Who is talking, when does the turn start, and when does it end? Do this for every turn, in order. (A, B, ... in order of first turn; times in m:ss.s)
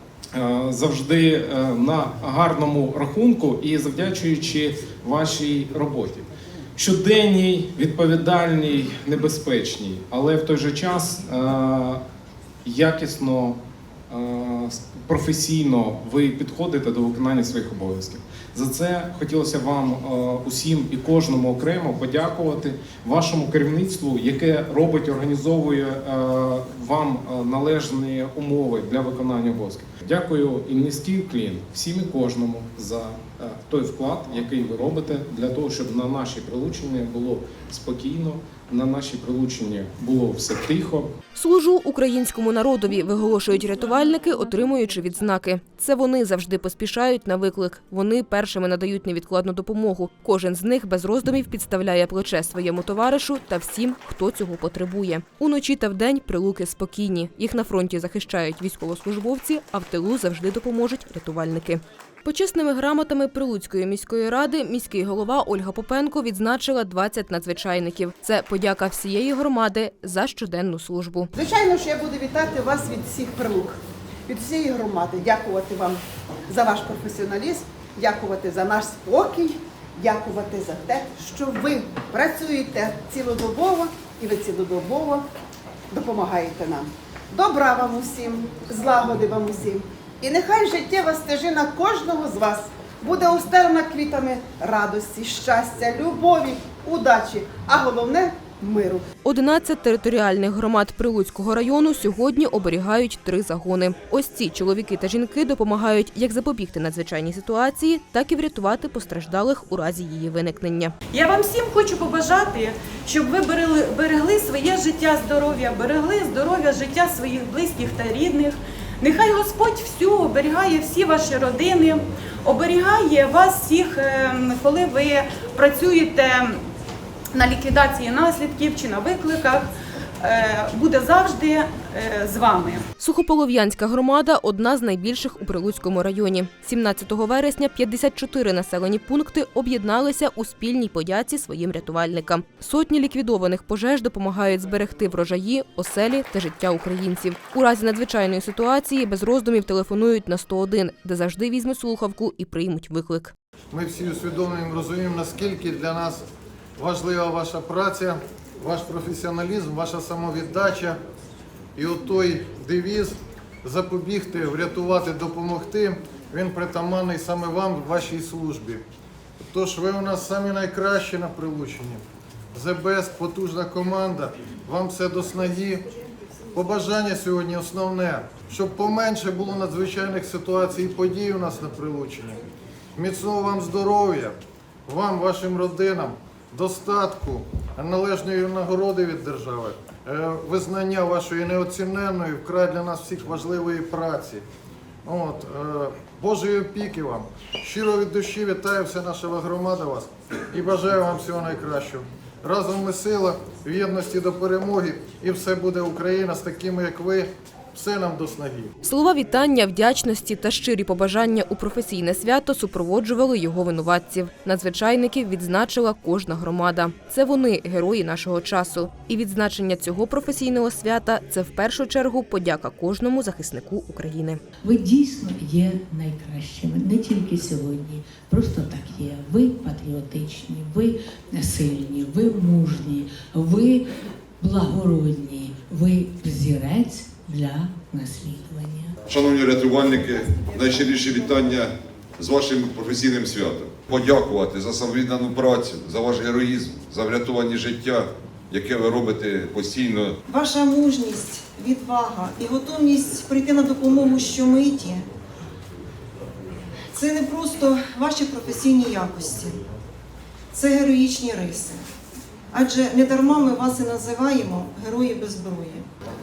0:00.4-0:12.0 A
0:12.6-0:41.1 A
0:41.4-1:11.3 B
1:11.4-1:25.3 C
1:25.9-1:39.0 C
1:39.2-1:50.9 B
1:51.1-2:06.6 D
2:07.3-2:12.9 D
2:13.0-2:33.3 B
2:33.7-2:36.2 E
2:36.8-2:41.0 E
2:41.8-2:48.8 E
2:49.5-2:52.0 E
2:52.5-2:55.8 E
2:56.6-3:02.4 E
3:03.0-3:04.4 E
3:04.9-3:14.4 E
3:15.0-3:28.7 E
3:28.8-3:44.4 B
3:44.6-3:53.8 F
3:54.4-3:58.9 F
3:59.1-4:10.2 G
4:10.3-4:15.0 H
4:16.9-4:19.6 H
4:20.5-4:21.8 H
4:22.5-4:25.8 H